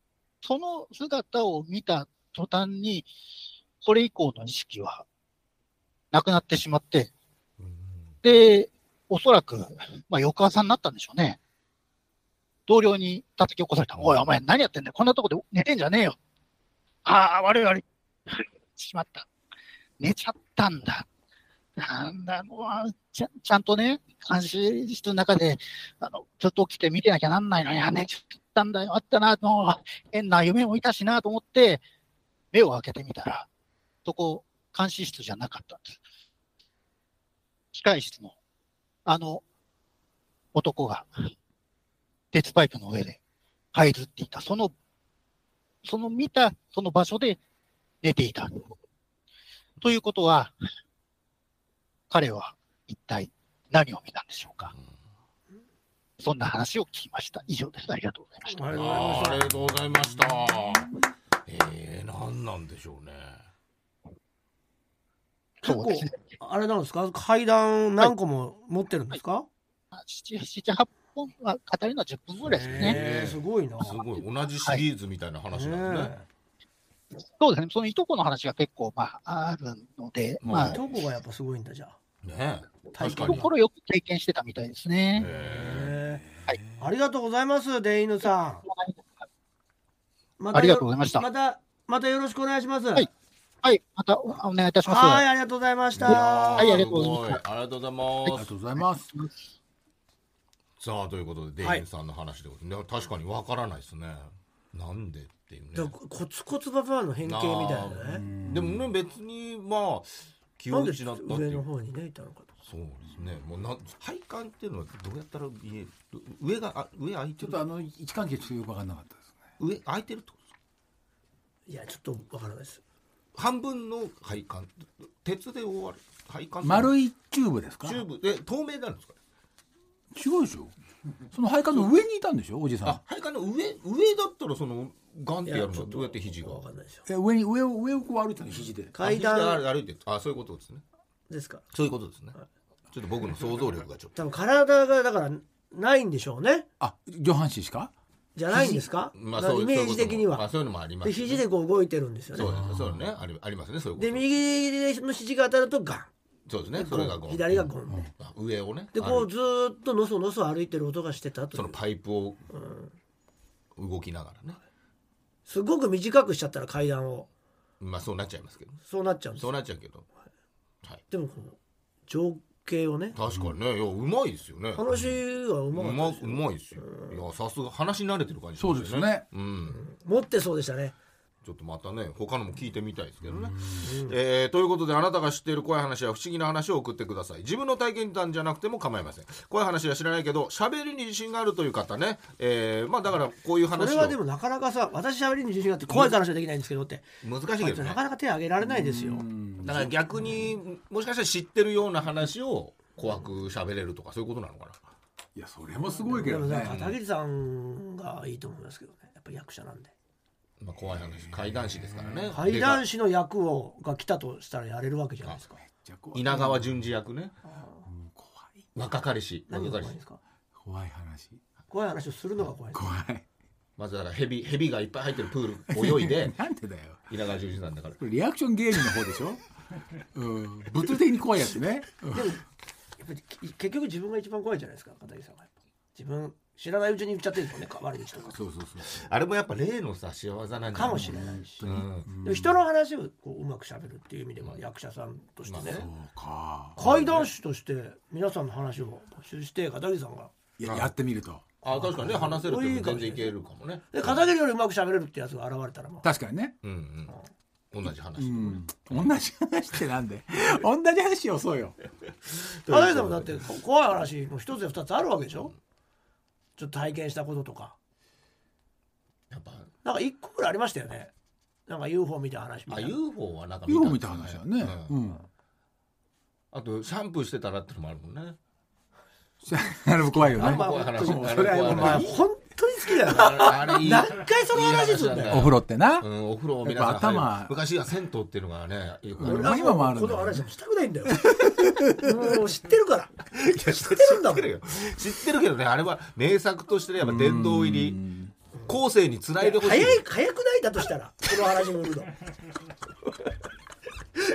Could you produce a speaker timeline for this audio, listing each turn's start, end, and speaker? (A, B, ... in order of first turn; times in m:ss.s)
0:00.4-0:03.1 A
0:03.8-0:05.0 A
0:06.1-0:07.1 A
0:07.6-0:08.2 B
0:08.2-0:11.4 A
0:12.7-0:16.2 A
0:14.0-0:14.2 B
0:17.0-0:19.3 A
0:20.0-0:21.1 A
0:21.8-0:31.8 A
0:32.5-0:33.5 A
0:34.0-0:36.0 A
0:37.7-0:38.4 A
0:39.1-0:39.4 A
0:40.5-0:41.3 A
0:42.3-0:43.2 A
0:43.7-0:44.7 A
0:45.8-0:47.4 A
0:48.0-0:48.7 A
0:49.8-0:50.6 A
0:52.1-0:54.7 A
0:56.2-0:58.8 A
0:58.5-0:59.4 C
0:58.7-1:00.9 B
1:01.4-1:03.4 B
1:05.6-1:09.5 C
1:05.6-1:06.2 A
1:09.9-1:13.0 A
1:12.5-1:14.0 C
1:12.5-1:16.2 B
1:15.5-1:16.2 C
1:17.4-1:20.8 A
1:20.4-1:20.8 B
1:20.6-1:22.0 C
1:22.2-1:23.5 B
1:22.9-1:23.5 C
1:23.2-1:25.3 A
1:25.2-1:26.0 B
1:25.5-1:26.8 D
1:25.6-1:26.2 C
1:26.8-1:28.6 C
1:28.7-1:29.0 A
1:30.4-1:33.1 C
1:30.5-1:31.3 A
1:33.6-1:35.3 A
1:34.8-1:36.8 C
1:36.0-1:38.5 B
1:36.0-1:37.4 A
1:38.2-1:39.3 A
1:38.3-1:39.1 D
1:40.8-1:45.9 B
1:45.8-1:48.3 C
1:47.2-1:51.6 B
1:48.1-1:48.9 D
1:50.7-1:52.5 C
1:52.7-1:57.6 B
1:57.4-1:59.3 D
1:59.6-2:00.4 B
2:01.7-2:02.8 C
2:03.4-2:06.9 B
2:06.6-2:08.0 D
2:07.8-2:09.2 B
2:10.1-2:10.7 D
2:11.3-2:13.0 D
2:12.8-2:16.6 B
2:15.5-2:17.0 C
2:17.1-2:18.9 D
2:18.9-2:19.6 C
2:19.0-2:20.8 B
2:21.3-2:21.6 C
2:21.7-2:22.3 B
2:22.9-2:24.2 B
2:24.2-2:26.7 C
2:26.8-2:27.9 D
2:28.4-2:30.5 C
2:29.1-2:31.4 B
2:31.0-2:32.5 C
2:32.4-2:34.2 B
2:32.4-2:33.1 D
2:34.0-2:36.1 C
2:36.5-2:39.3 B
2:36.8-2:38.1 C
2:38.9-2:41.8 C
2:41.5-2:42.4 B
2:42.5-2:42.9 C
2:43.8-2:44.6 B
2:45.5-2:47.3 C
2:47.8-2:48.8 B
2:48.8-2:49.5 C
2:49.4-2:50.0 B
2:51.1-2:53.2 C
2:53.2-2:54.9 B
2:54.8-2:57.2 C
2:55.7-2:59.8 B
2:58.6-2:59.2 D
2:59.7-3:01.0 C
3:01.4-3:14.2 B
3:03.3-3:03.8 D
3:03.8-3:04.2 C
3:13.8-3:17.1 C
3:15.9-3:16.2 B
3:17.2-3:18.0 B
3:17.6-3:19.3 C
3:18.6-3:20.4 D
3:19.6-3:24.8 B
3:25.4-3:26.8 D
3:26.1-3:29.9 C
3:26.6-3:27.0 B
3:30.6-3:32.8 B
3:31.0-3:32.3 D
3:32.3-3:35.6 C
3:35.7-3:36.8 D
3:36.1-3:37.4 B
3:37.5-3:37.9 C
3:37.9-3:38.7 D
3:38.8-3:40.0 B
3:39.5-3:40.2 C
3:40.6-3:41.4 D
3:41.7-3:42.9 C
3:42.7-3:43.2 D
3:43.8-3:46.4 B
3:45.7-3:47.0 D
3:47.1-3:48.0 B
3:48.0-3:49.4 D
3:50.1-3:52.3 D
3:52.1-3:52.4 C
3:53.0-3:58.4 C
3:58.3-3:59.1 D
3:58.8-4:02.1 B
4:00.7-4:05.9 C
4:00.9-4:02.6 D
4:05.5-4:05.9 B
4:05.7-4:06.8 D
4:06.8-4:10.3 C
4:06.8-4:07.3 B
4:10.6-4:12.1 D
4:10.6-4:10.9 B
4:11.6-4:14.3 B
4:12.0-4:13.3 C
4:13.9-4:16.1 C
4:16.0-4:16.5 D
4:16.6-4:17.1 B
4:17.7-4:18.7 B
4:18.2-4:21.8 D
4:22.5-4:23.5 B
4:22.7-4:25.5 C
4:26.6-4:27.8 C
4:29.3-4:29.7 B
4:29.8-4:31.1 C
4:31.7-4:33.0 C
4:32.7-4:35.0 B
4:33.7-4:35.2 D
4:36.5-4:38.4 B
4:39.4-4:42.2 D
4:40.2-4:42.2 B
4:40.2-4:45.4 C
4:43.1-4:49.6 B
4:45.3-4:46.1 D
4:46.6-4:47.6 D
4:49.2-4:50.4 D
4:49.2-4:54.5 C
4:51.1-4:52.1 D
4:53.3-4:58.0 B
4:57.0-4:58.3 D
4:58.7-5:00.0 B
4:59.4-5:02.1 C